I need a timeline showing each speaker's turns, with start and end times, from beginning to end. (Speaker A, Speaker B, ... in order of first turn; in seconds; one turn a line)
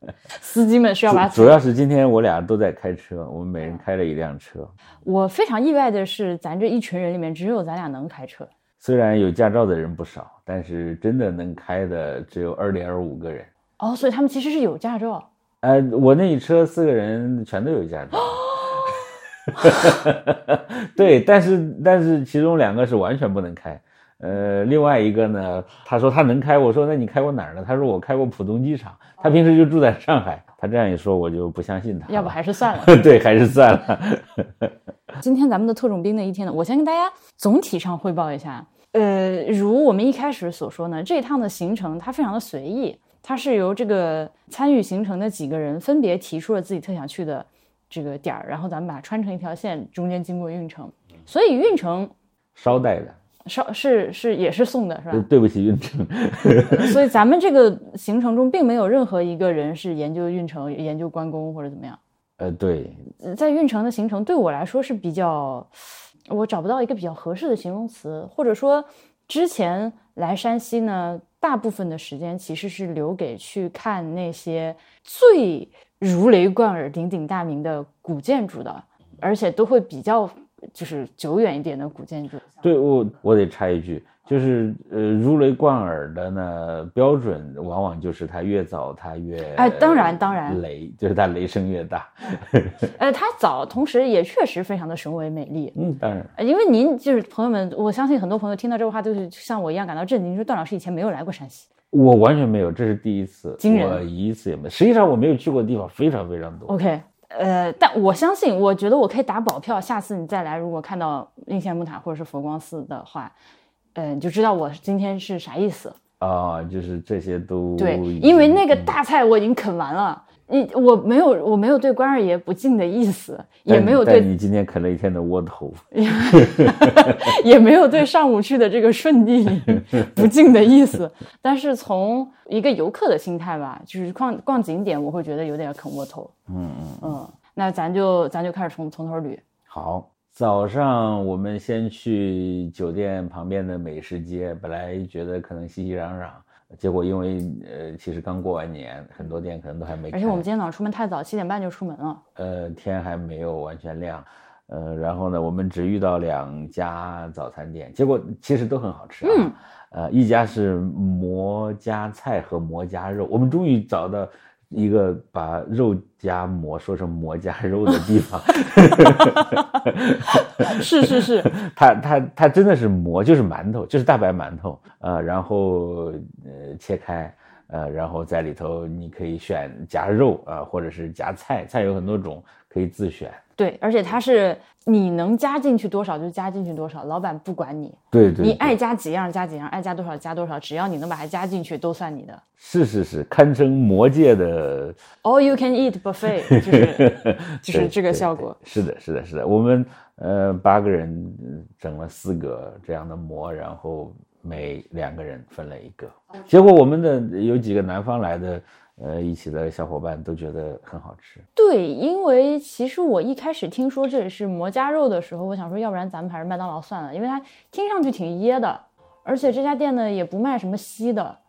Speaker A: 0.3-1.6
Speaker B: 1.1-4.7
Speaker A: 5.0-8.5
Speaker B: 8.8-13.5
Speaker A: 13.8-15.2
Speaker B: 15.6-34.7
Speaker A: 32.1-33.0
Speaker A: 35.2-52.1
Speaker B: 52.5-53.2
Speaker A: 53.5-55.2
Speaker B: 55.1-57.0
Speaker A: 56.7-62.0
Speaker B: 62.4-63.0
Speaker A: 63.2-65.7
Speaker A: 66.3-82.4
Speaker B: 82.6-92.9
Speaker A: 89.5-90.6
Speaker A: 92.9-95.7
Speaker B: 95.7-96.3
Speaker A: 96.3-101.7
Speaker B: 101.9-106.7
Speaker A: 103.6-104.0
Speaker A: 106.7-113.3
Speaker A: 113.9-116.0
Speaker B: 116.2-118.9
Speaker A: 117.8-124.3
Speaker B: 123.7-127.3
Speaker A: 125.9-136.3
Speaker B: 136.5-137.1
Speaker A: 137.0-139.4
Speaker B: 139.7-150.4
Speaker A: 150.1-152.2
Speaker B: 152.3-183.4
Speaker A: 159.2-159.5
Speaker A: 170.4-171.5
Speaker A: 183.6-192.4
Speaker B: 188.1-188.8
Speaker B: 192.6-195.0
Speaker A: 195.2-198.6
Speaker B: 196.5-211.4
Speaker A: 211.6-221.4